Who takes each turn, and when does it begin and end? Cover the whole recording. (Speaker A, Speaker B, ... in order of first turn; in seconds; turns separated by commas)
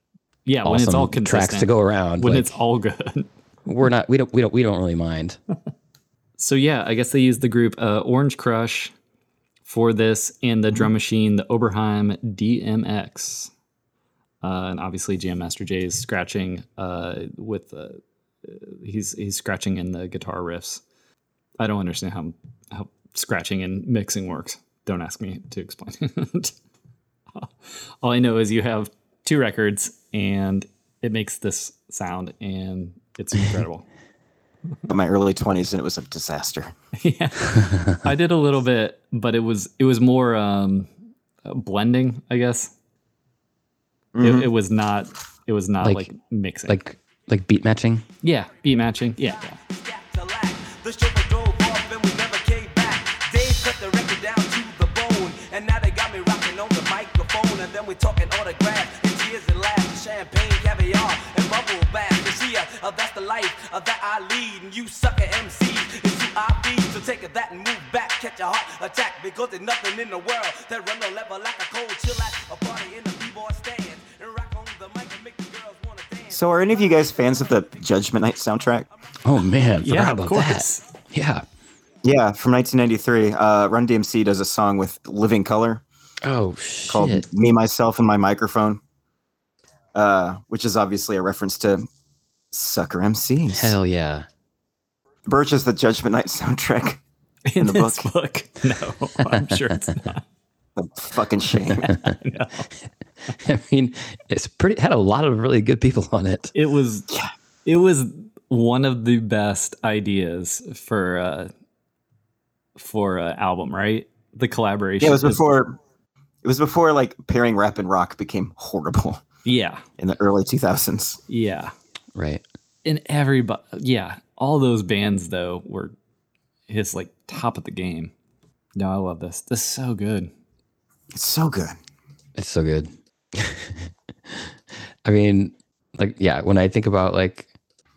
Speaker A: 0.5-3.3, Speaker B: 0.6-2.5, Speaker B: 3.6-5.4, Speaker A: 6.4-8.9, Speaker A: 9.7-13.5, Speaker A: 14.4-20.8, Speaker A: 21.6-26.5, Speaker A: 27.4-33.9, Speaker C: 34.9-36.7, Speaker A: 37.0-40.9, Speaker A: 41.4-42.7, Speaker C: 44.1-44.5, Speaker A: 44.2-46.8, Speaker B: 45.8-46.1, Speaker B: 46.7-48.0, Speaker A: 48.2-49.6, Speaker D: 49.3-78.1, Speaker C: 76.3-78.9, Speaker B: 79.2-81.4, Speaker A: 79.8-80.8, Speaker C: 82.0-85.8, Speaker B: 86.2-87.2, Speaker C: 86.9-88.8, Speaker C: 89.9-91.8, Speaker C: 92.5-93.8, Speaker B: 93.5-94.2, Speaker C: 95.2-97.0, Speaker A: 97.5-100.2, Speaker C: 97.6-98.1, Speaker C: 100.8-101.9, Speaker A: 101.8-102.7, Speaker B: 103.4-106.5, Speaker A: 106.5-107.1, Speaker A: 107.6-111.5, Speaker A: 112.8-115.4, Speaker C: 115.0-115.8, Speaker C: 116.4-119.2, Speaker A: 119.4-119.8, Speaker C: 120.0-121.2, Speaker A: 121.3-121.7, Speaker B: 122.1-122.4, Speaker A: 122.8-125.9, Speaker A: 126.7-128.1, Speaker A: 128.8-130.3, Speaker C: 131.1-131.8, Speaker B: 132.3-137.5